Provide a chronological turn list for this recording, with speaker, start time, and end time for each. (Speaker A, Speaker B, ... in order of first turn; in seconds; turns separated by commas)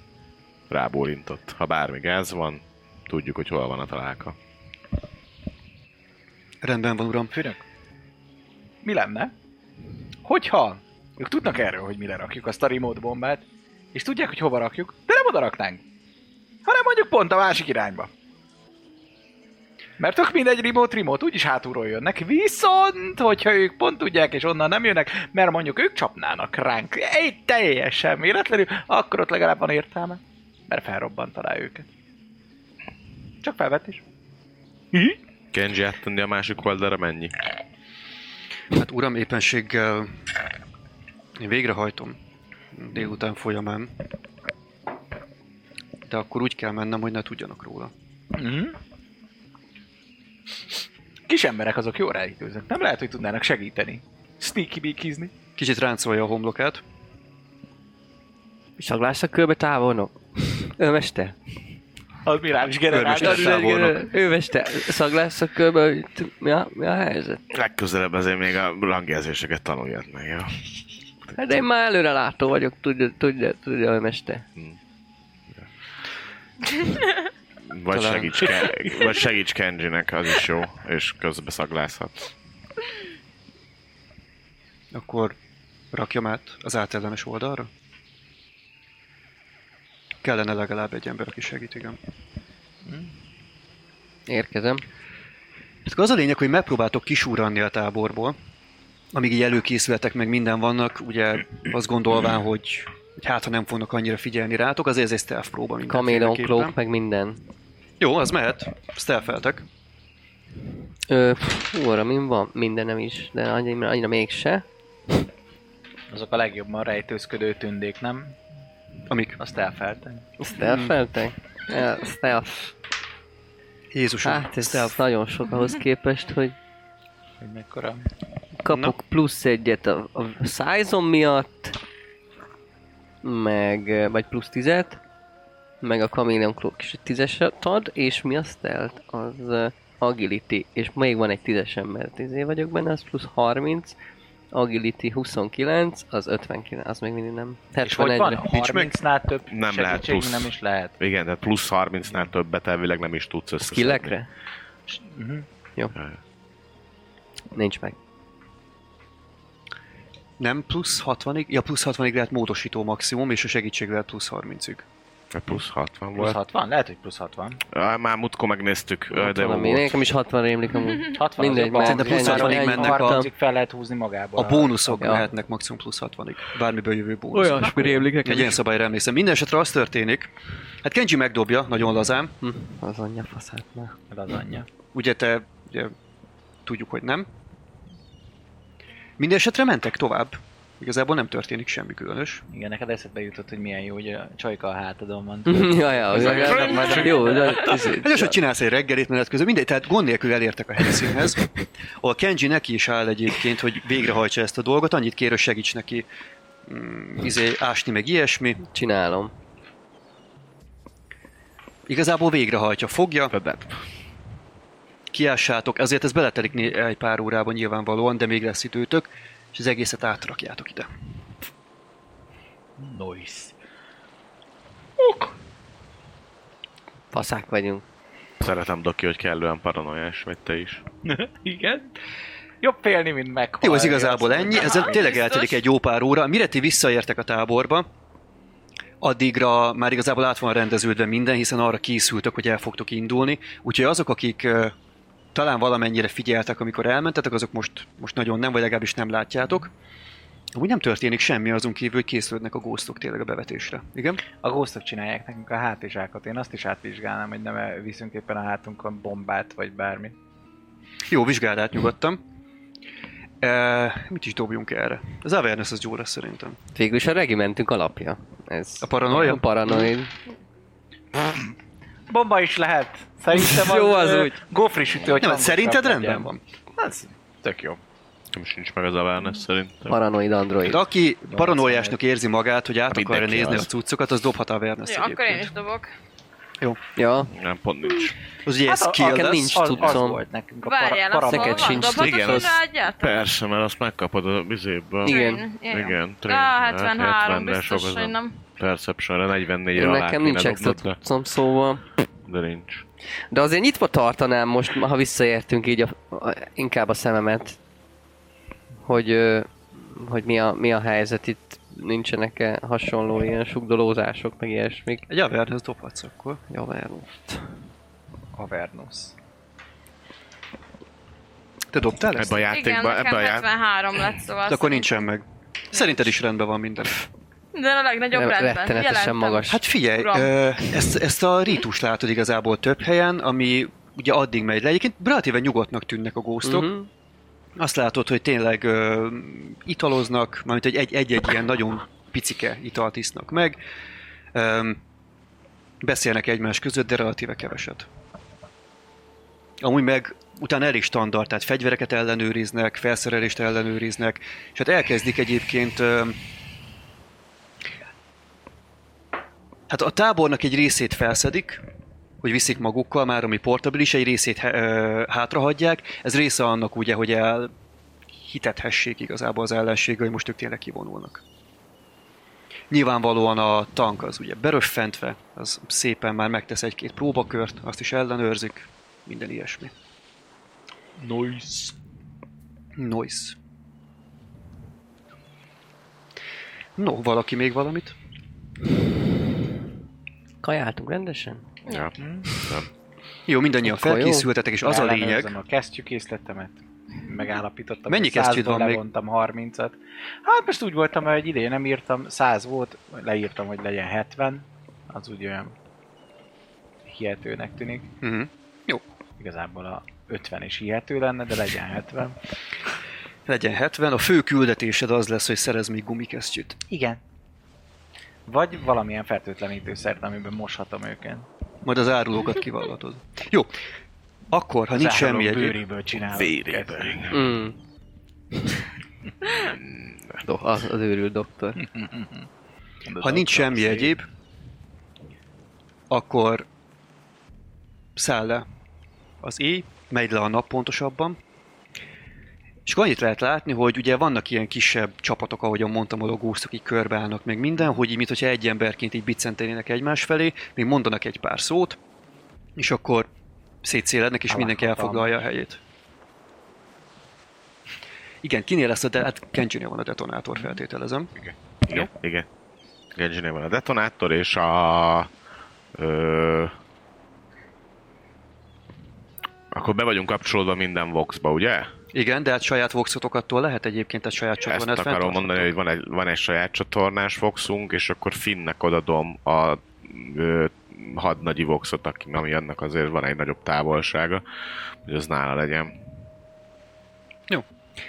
Speaker A: 0.7-4.3, Speaker B: 6.6-7.3, Speaker C: 7.3-7.6, Speaker C: 8.8-9.3, Speaker C: 10.2-15.8, Speaker C: 16.6-18.1, Speaker C: 20.0-31.9, Speaker C: 33.4-34.0, Speaker A: 35.5-37.3, Speaker B: 38.7-40.2, Speaker B: 41.4-42.2, Speaker B: 42.7-43.9, Speaker B: 46.0-47.9, Speaker C: 48.3-48.8, Speaker C: 51.3-55.3, Speaker B: 55.5-56.8, Speaker D: 58.8-61.4, Speaker C: 62.2-63.8, Speaker B: 62.9-64.0, Speaker D: 63.1-67.4, Speaker A: 67.5-70.6, Speaker D: 71.3-74.4, Speaker A: 77.7-82.3, Speaker B: 77.9-78.7, Speaker B: 84.9-85.3, Speaker B: 85.9-87.7, Speaker B: 90.2-92.0, Speaker C: 92.8-93.1, Speaker D: 94.3-94.8, Speaker B: 95.8-98.3, Speaker B: 99.1-106.7, Speaker D: 105.9-107.4, Speaker B: 108.0-109.6, Speaker D: 111.1-114.6, Speaker C: 116.1-118.4, Speaker B: 119.1-119.4, Speaker C: 119.4-120.3, Speaker D: 120.4-122.7, Speaker B: 120.6-120.9, Speaker B: 123.9-125.0, Speaker D: 124.2-126.5, Speaker C: 127.4-128.1, Speaker D: 128.6-131.8, Speaker B: 128.7-128.9, Speaker D: 133.2-135.0, Speaker D: 135.8-143.9, Speaker D: 144.5-148.4, Speaker C: 147.8-150.9, Speaker B: 148.5-148.9, Speaker A: 149.5-154.2, Speaker D: 153.6-154.3, Speaker C: 154.9-155.4, Speaker D: 157.5-158.0, Speaker B: 160.4-164.8, Speaker A: 165.3-166.4, Speaker C: 166.2-167.6, Speaker A: 167.7-170.0, Speaker D: 169.1-173.3, Speaker C: 171.2-175.0, Speaker B: 171.5-173.2, Speaker B: 174.3-180.3, Speaker D: 175.0-175.3, Speaker D: 177.3-178.6, Speaker B: 180.8-182.3, Speaker D: 182.4-183.9, Speaker C: 184.1-184.7, Speaker B: 184.9-185.9, Speaker B: 186.6-187.3, Speaker B: 189.2-192.4, Speaker C: 192.5-197.8, Speaker D: 195.4-198.4, Speaker A: 196.4-197.1, Speaker B: 197.9-206.1, Speaker B: 206.7-208.6, Speaker D: 208.7-209.3, Speaker B: 211.9-213.3, Speaker A: 213.3-213.8, Speaker B: 215.1-220.9, Speaker C: 222.8-223.5, Speaker C: 225.0-225.3, Speaker D: 227.1-227.8, Speaker A: 228.4-230.8, Speaker C: 231.0-231.9, Speaker C: 232.6-235.2, Speaker B: 233.6-237.9, Speaker E: 234.5-235.6, Speaker B: 239.0-244.7, Speaker B: 245.3-249.7, Speaker B: 250.5-254.2, Speaker C: 254.4-260.1, Speaker B: 261.1-262.2, Speaker B: 263.4-266.6, Speaker D: 266.7-270.1, Speaker B: 268.8-269.9, Speaker C: 272.1-277.8, Speaker D: 273.3-274.4, Speaker B: 275.2-276.4, Speaker A: 278.3-280.0, Speaker D: 279.9-280.8, Speaker B: 280.6-285.5, Speaker C: 281.3-282.0, Speaker A: 282.9-283.7, Speaker E: 284.8-285.9, Speaker D: 286.9-287.3, Speaker A: 287.3-288.1, Speaker B: 288.4-290.0, Speaker C: 288.6-291.9, Speaker D: 288.9-290.2, Speaker E: 290.6-293.3, Speaker D: 291.3-292.5, Speaker A: 291.7-301.0, Speaker D: 295.0-295.4, Speaker E: 295.1-298.4, Speaker D: 299.7-301.9, Speaker A: 302.3-302.8, Speaker D: 303.3-307.6, Speaker D: 308.8-315.1, Speaker B: 315.1-316.4, Speaker D: 316.5-317.5, Speaker C: 318.4-319.1, Speaker B: 321.7-322.4, Speaker A: 322.1-323.5, Speaker E: 322.5-325.1, Speaker B: 324.5-327.0, Speaker E: 327.5-330.3, Speaker D: 328.1-329.6, Speaker B: 329.5-336.7, Speaker D: 336.4-336.9, Speaker B: 337.6-343.6, Speaker B: 344.3-344.8, Speaker B: 345.8-347.9, Speaker B: 349.6-356.2, Speaker B: 359.7-361.6, Speaker B: 362.2-367.5, Speaker B: 368.2-371.2, Speaker B: 372.7-379.7, Speaker C: 381.0-381.7, Speaker B: 382.8-383.4, Speaker B: 386.8-387.9, Speaker D: 390.4-391.5, Speaker A: 391.6-392.7, Speaker C: 392.0-392.3, Speaker B: 393.3-395.3, Speaker D: 393.6-394.3, Speaker C: 394.6-405.5, Speaker B: 397.9-398.8, Speaker C: 406.9-407.9, Speaker B: 408.0-408.8, Speaker C: 409.2-412.2, Speaker B: 413.3-416.6, Speaker C: 416.7-417.0, Speaker C: 418.3-421.3, Speaker B: 421.6-423.5, Speaker B: 424.3-425.6, Speaker C: 424.7-427.1, Speaker A: 426.1-427.1, Speaker D: 427.1-427.6, Speaker A: 429.4-430.2, Speaker D: 430.2-431.6, Speaker C: 431.6-432.3, Speaker C: 432.8-433.9, Speaker B: 433.0-434.1, Speaker B: 435.9-436.5, Speaker B: 437.9-438.5, Speaker B: 439.2-441.2, Speaker B: 442.6-451.8, Speaker B: 452.6-453.1, Speaker B: 453.6-455.6, Speaker C: 454.3-455.2, Speaker B: 458.2-461.1, Speaker A: 461.2-462.3, Speaker A: 462.9-465.1, Speaker A: 465.7-466.5, Speaker A: 469.5-471.7, Speaker B: 471.9-475.5, Speaker A: 474.5-484.2, Speaker A: 484.9-485.7